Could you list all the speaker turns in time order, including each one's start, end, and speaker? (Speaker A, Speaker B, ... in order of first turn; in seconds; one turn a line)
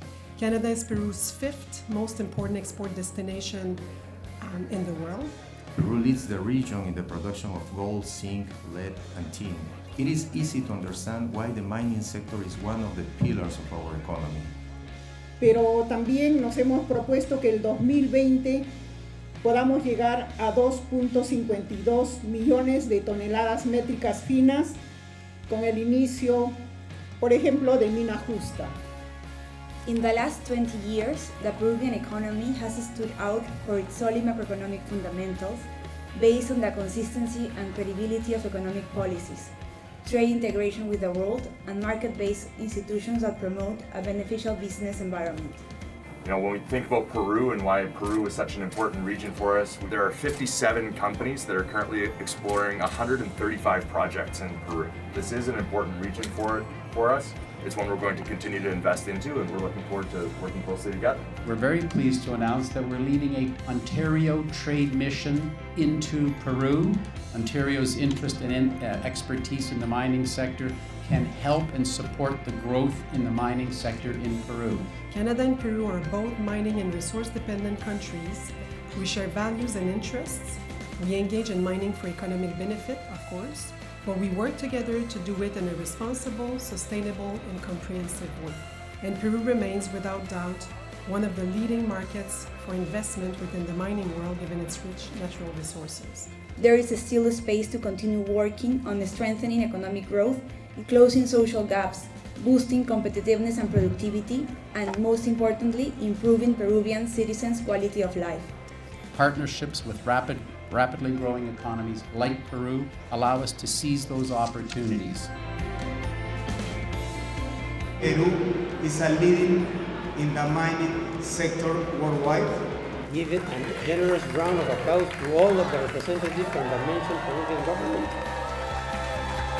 Speaker A: 0.4-3.8
Speaker A: 4.4-5.3
Speaker B: 5.7-14.5
Speaker C: 15.4-18.7
Speaker C: 19.4-24.8
Speaker C: 25.5-26.6
Speaker C: 27.2-28.7
Speaker D: 29.8-45.6
Speaker E: 46.2-61.2
Speaker F: 61.4-74.9
Speaker A: 75.1-96.3
Speaker D: 96.5-108.5
Speaker F: 109.1-115.3
Speaker G: 118.0-119.5
Speaker G: 120.2-122.6
Speaker H: 123.1-128.1